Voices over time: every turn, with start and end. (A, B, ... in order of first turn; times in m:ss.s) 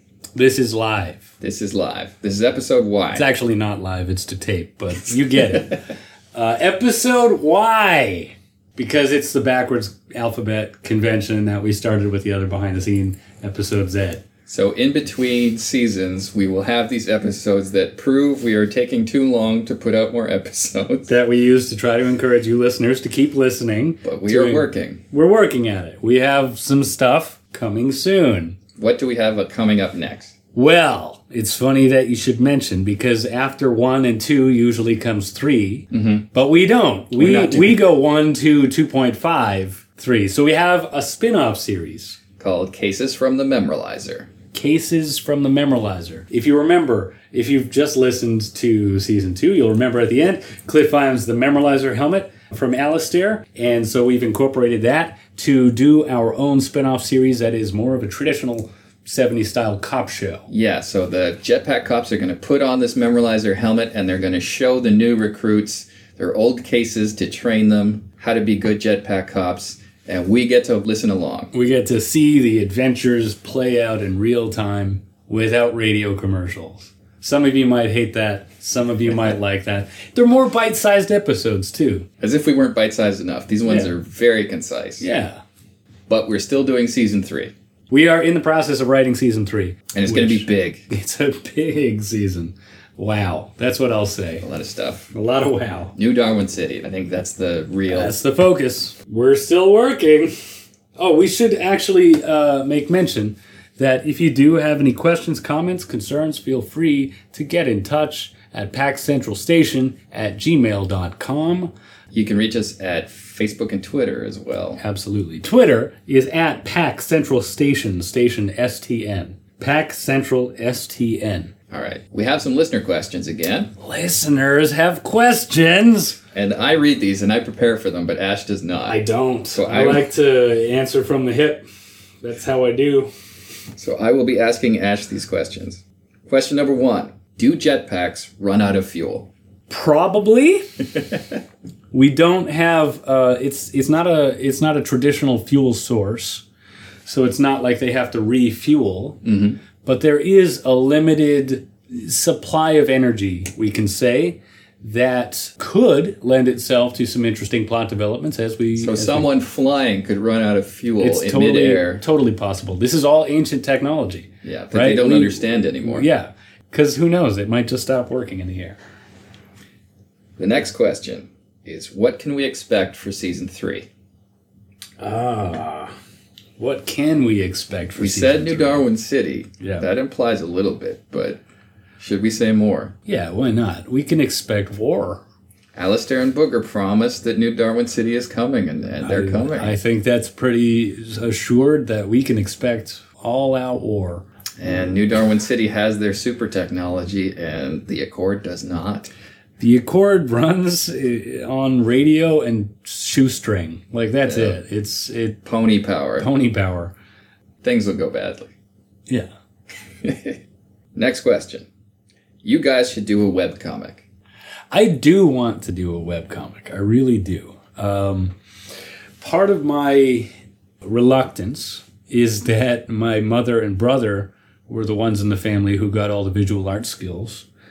0:00.4-0:01.3 A
0:01.4-0:03.3 B
0:03.1-0:14.2 A
0:14.5-0:21.1 B
0:21.1-0:28.6 A
0:24.0-0:25.0 B
0:28.8-0:30.3 B
0:30.5-0:42.2 A
0:35.9-0:36.3 B
0:37.2-0:37.8 B
0:42.4-0:44.3 B
0:44.5-1:00.5 A
1:00.5-1:11.5 B
1:11.5-1:22.1 A
1:22.2-1:25.1 B
1:23.7-1:23.9 A
1:25.0-1:25.4 A
1:26.1-1:27.5 B
1:27.9-1:34.4 A
1:29.9-1:30.9 B
1:34.4-1:35.1 B
1:35.1-1:35.9 A
1:36.0-1:38.2 B
1:37.9-1:40.3 A
1:41.0-1:51.7 A
1:52.1-1:54.8 B
1:54.8-2:01.5 A
2:01.7-2:03.7 B
2:03.8-2:06.2 A
2:06.4-2:09.0 B
2:08.9-2:11.6 A
2:09.5-2:10.1 B
2:12.2-2:13.1 A
2:13.8-2:19.3 B
2:19.7-2:20.7 A
2:21.9-2:26.4 A
2:27.1-2:29.2 A
2:29.2-2:29.6 B
2:29.8-2:39.3 A
2:38.8-2:42.0 B
2:41.0-2:48.8 A
2:44.4-2:46.1 B
2:50.4-2:53.9 B
2:55.0-2:55.9 A
2:56.6-2:58.9 A
2:58.0-3:01.4 B
2:59.6-2:59.9 A
3:02.0-3:03.0 B
3:03.0-3:05.2 A
3:05.8-3:09.8 B
3:09.0-3:14.3 A
3:14.6-3:19.1 B
3:19.6-3:25.4 A
3:24.3-3:24.6 B
3:25.4-3:26.3 B
3:26.2-3:26.9 A
3:27.6-3:28.5 B
3:30.0-3:30.4 B
3:31.0-3:31.7 B
3:32.4-3:34.1 B
3:34.7-3:38.3 A
3:39.2-3:40.3 A
3:40.8-3:47.5 A